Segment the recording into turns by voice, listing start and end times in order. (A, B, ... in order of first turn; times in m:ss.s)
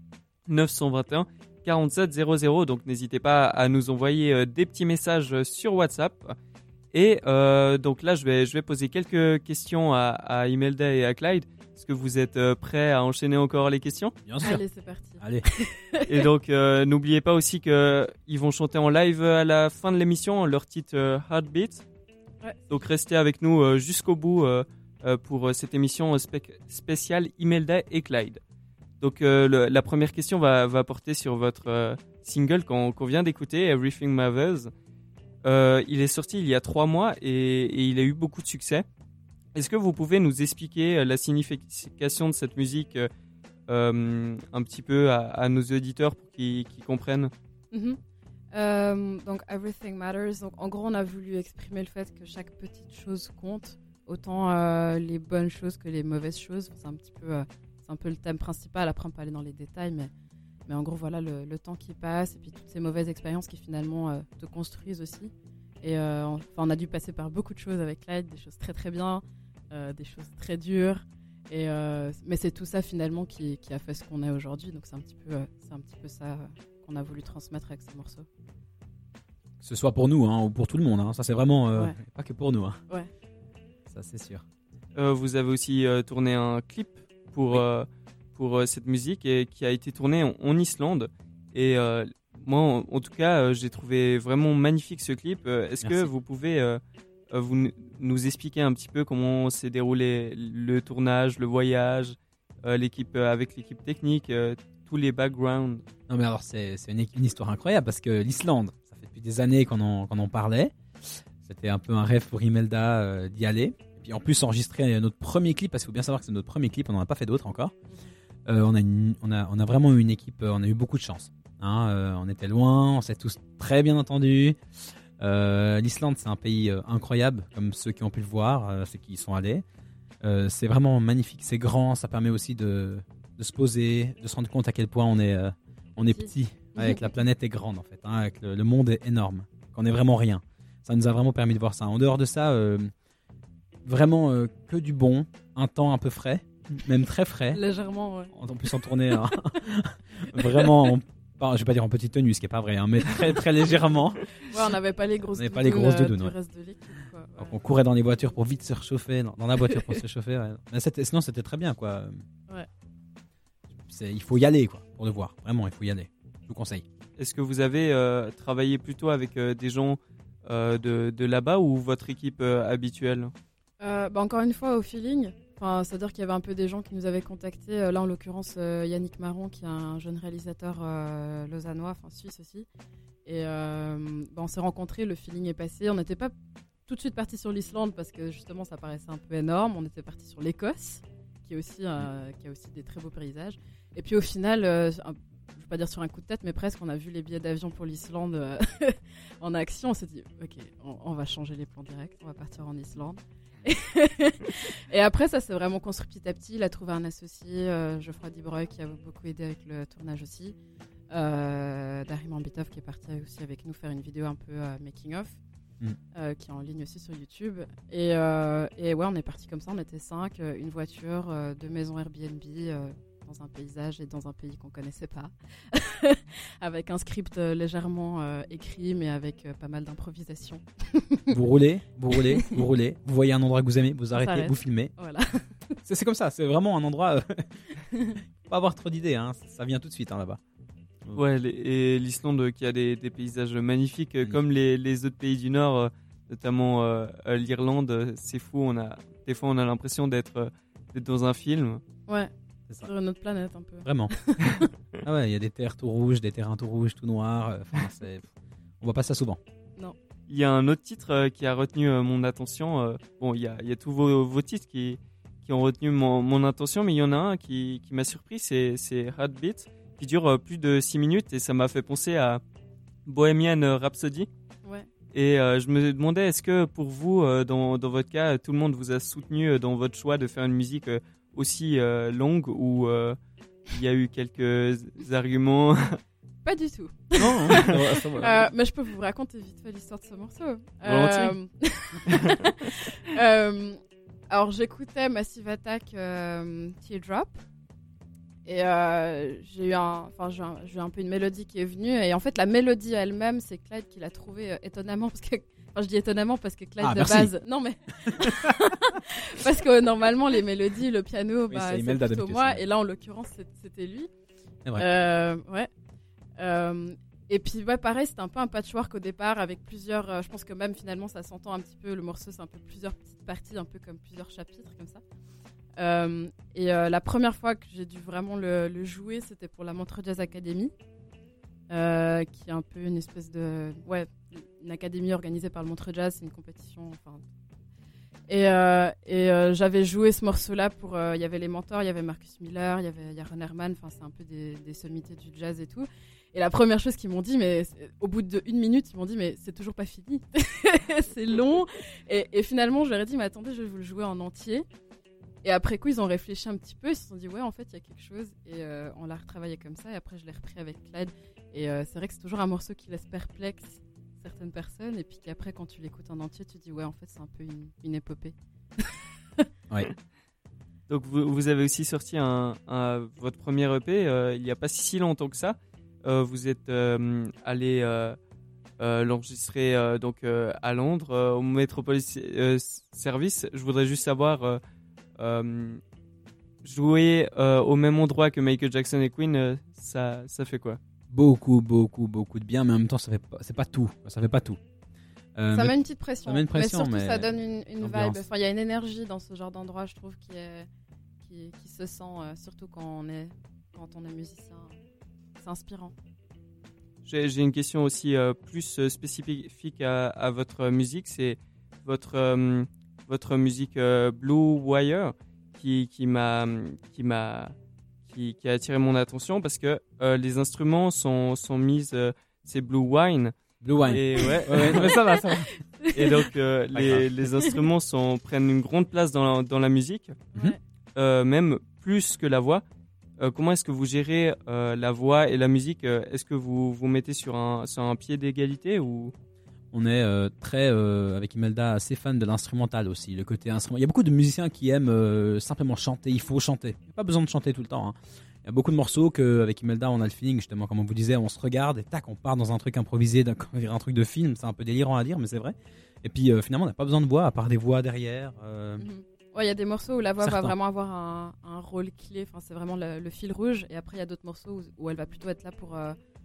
0:00.5-0:06.4 A
0:06.9-0:14.1 A
0:14.2-0:14.6 B
0:14.4-0:16.1 C
0:15.2-0:15.4 B
0:16.1-0:21.8 A
0:22.7-0:28.4 A
0:29.0-0:34.7 A
0:35.4-0:38.9 A
0:39.6-0:43.1 A
0:43.7-0:47.3 A
0:47.7-0:48.0 C
0:48.5-1:00.1 C
1:00.7-1:18.3 C
1:19.6-1:22.8 B
1:23.9-1:24.4 B
1:25.0-1:36.8 A
1:35.8-1:36.1 B
1:37.3-1:45.8 A
1:46.1-1:57.7 B
1:58.5-2:04.6 B
2:05.2-2:09.6 B
2:10.2-2:22.9 B
2:16.0-2:17.2 C
2:23.8-2:27.6 B
2:27.5-2:28.3 C
2:28.3-2:34.7 B
2:30.3-2:30.7 C
2:34.5-2:37.6 C
2:35.3-2:36.4 B
2:37.4-2:42.2 B
2:43.8-2:46.8 B
2:47.2-2:53.3 A
2:53.8-3:02.7 C
3:03.2-3:06.3 C
3:06.9-3:30.6 C
3:31.1-3:35.4 C
3:36.1-3:51.4 C
3:51.3-3:54.9 B
3:52.1-3:52.6 C
3:54.1-3:55.8 C
3:55.9-3:57.5 B
3:57.9-3:58.2 C
3:58.4-4:00.4 B
4:01.2-4:11.8 A
4:12.8-4:14.7 C
4:13.8-4:14.1 B
4:15.0-4:18.3 B
4:18.8-4:19.4 B
4:20.3-4:32.4 A
4:33.1-4:34.3 A
4:35.1-4:43.2 A
4:43.7-4:46.0 A
4:46.4-4:53.8 C
4:47.2-4:47.8 A
4:47.3-4:48.5 B
4:50.8-4:51.4 A
4:54.3-4:57.4 C
4:58.5-5:14.1 C
5:06.8-5:07.3 B
5:08.1-5:08.5 B
5:11.5-5:12.6 B
5:14.8-5:15.7 C
5:16.4-5:25.0 C
5:25.8-5:30.7 C
5:31.7-5:37.2 C
5:38.3-5:54.6 C
5:55.4-6:09.5 C
6:10.9-6:18.2 A
6:18.8-6:24.6 A
6:25.2-6:25.8 A
6:26.6-6:30.8 A
6:31.1-6:34.6 B
6:35.4-6:38.2 B
6:35.5-6:40.7 C
6:41.2-6:44.7 C
6:45.4-6:46.0 C
6:47.0-6:57.6 A
6:58.1-7:03.3 A
7:03.6-7:05.5 B
7:03.9-7:06.3 C
7:03.9-7:05.0 A
7:05.9-7:10.2 A
7:06.7-7:07.1 B
7:10.3-7:10.6 C
7:11.0-7:12.6 A
7:13.2-7:19.1 A
7:19.7-7:38.9 B
7:38.8-7:46.0 C
7:40.2-7:40.6 B